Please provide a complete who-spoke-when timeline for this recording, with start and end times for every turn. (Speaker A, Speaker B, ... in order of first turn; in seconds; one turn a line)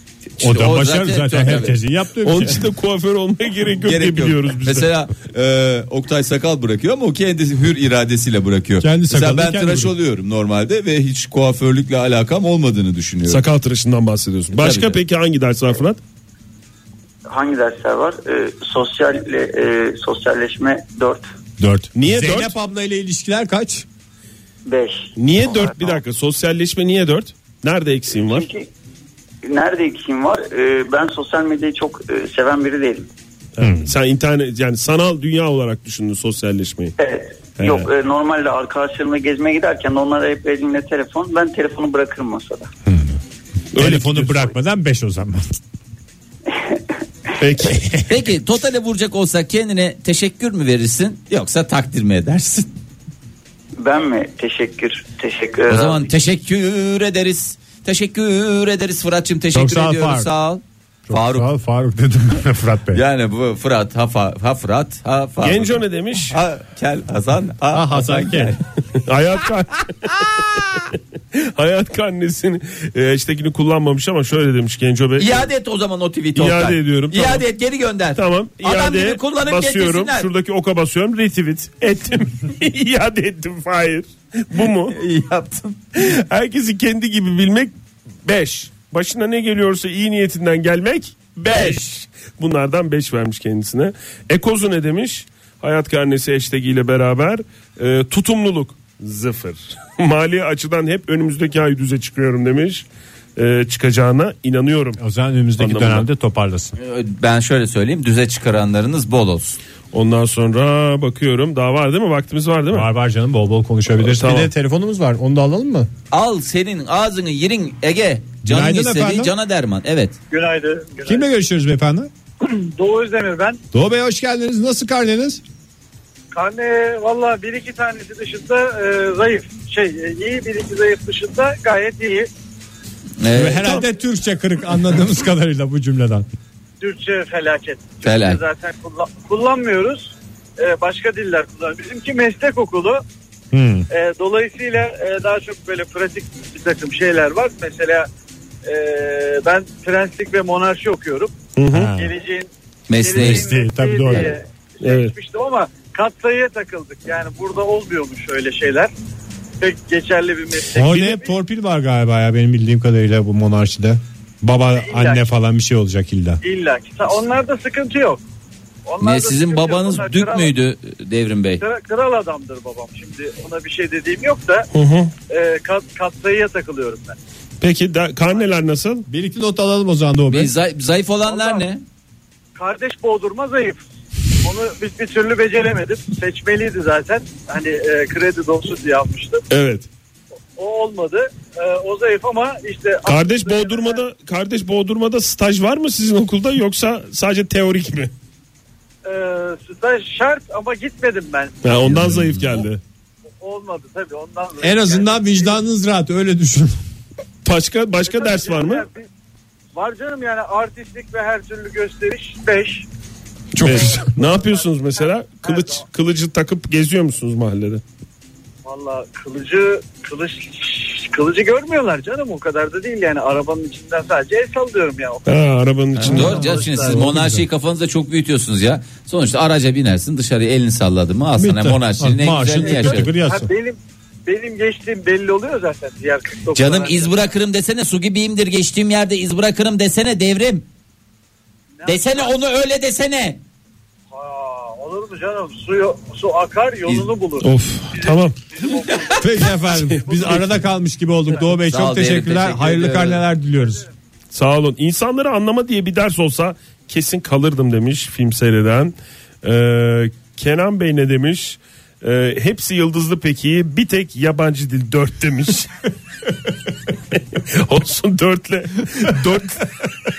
Speaker A: 0.4-1.8
Speaker B: 0.4-2.6
Speaker C: 2.2-4.9
Speaker A: 3.8-13.4
Speaker B: 8.8-9.9
Speaker C: 13.2-16.0
Speaker A: 14.5-15.0
Speaker D: 17.3-21.2
Speaker B: 21.6-23.9
Speaker C: 21.9-22.5
Speaker D: 24.6-26.0
Speaker C: 25.2-28.5
Speaker D: 28.1-28.7
Speaker D: 29.4-33.1
Speaker C: 33.5-36.9
Speaker B: 33.6-33.9
Speaker D: 37.0-42.7
Speaker C: 37.6-37.9
Speaker B: 42.9-43.2
Speaker C: 43.7-44.5
Speaker B: 43.7-45.5
Speaker D: 46.5-46.8
Speaker C: 47.4-48.1
Speaker A: 48.0-52.7
Speaker D: 53.8-56.1
Speaker A: 55.7-61.5
Speaker B: 59.5-60.3
Speaker B: 61.1-63.0
Speaker A: 62.9-68.6
Speaker C: 65.4-66.4
Speaker B: 67.7-68.5
Speaker C: 68.9-75.5
Speaker A: 70.1-70.8
Speaker A: 75.2-80.3
Speaker C: 76.3-77.5
Speaker C: 78.2-84.9
Speaker A: 84.9-85.8
Speaker C: 86.0-87.7
Speaker C: 88.2-102.8
Speaker A: 91.5-91.8
Speaker C: 103.3-105.0
Speaker B: 105.0-106.8
Speaker C: 105.6-106.1
Speaker A: 106.8-109.6
Speaker C: 109.9-112.9
Speaker B: 112.7-115.9
Speaker C: 114.0-114.5
Speaker A: 116.1-120.2
Speaker B: 118.4-119.3
Speaker E: 120.3-121.2
Speaker B: 121.0-122.1
Speaker E: 122.4-123.6
Speaker B: 123.7-125.4
Speaker E: 126.3-132.3
Speaker A: 133.2-133.8
Speaker B: 133.3-136.3
Speaker E: 136.8-143.0
Speaker A: 138.0-138.4
Speaker B: 143.5-143.9
Speaker E: 143.9-148.1
Speaker E: 148.6-151.3
Speaker C: 151.6-151.9
Speaker B: 151.7-152.1
Speaker E: 151.9-158.9
Speaker A: 152.9-153.4
Speaker B: 153.2-154.4
Speaker C: 154.8-155.1
Speaker E: 159.6-161.3
Speaker B: 160.7-166.4
Speaker E: 164.8-165.3
Speaker E: 166.4-168.2
Speaker E: 168.8-170.6
Speaker A: 169.0-171.6
Speaker E: 171.6-174.7
Speaker C: 174.7-175.1
Speaker E: 175.3-177.2
Speaker C: 177.6-179.0
Speaker B: 179.1-180.5
Speaker A: 180.3-181.8
Speaker E: 181.2-181.6
Speaker E: 182.6-183.8
Speaker E: 184.4-189.4
Speaker C: 189.5-189.9
Speaker E: 190.6-194.0
Speaker C: 193.1-198.1
Speaker E: 199.0-201.6
Speaker C: 201.6-202.8
Speaker B: 201.8-202.6
Speaker E: 203.4-205.6
Speaker B: 204.6-206.8
Speaker C: 207.4-208.9
Speaker E: 208.0-209.1
Speaker E: 209.7-212.8
Speaker B: 213.5-214.2
Speaker C: 213.6-217.8
Speaker E: 215.4-215.8
Speaker E: 218.6-225.3
Speaker C: 225.2-226.4
Speaker A: 225.9-233.1
Speaker B: 226.1-227.4
Speaker E: 226.1-227.0
Speaker B: 231.4-233.5
Speaker E: 232.6-237.2
Speaker A: 236.5-240.7
Speaker E: 241.8-242.3
Speaker A: 241.8-243.4
Speaker E: 244.1-249.4
Speaker C: 247.4-248.4
Speaker A: 248.9-249.2
Speaker B: 249.2-253.8
Speaker C: 249.7-250.6
Speaker A: 251.6-253.2
Speaker C: 254.3-265.9
Speaker C: 267.1-269.8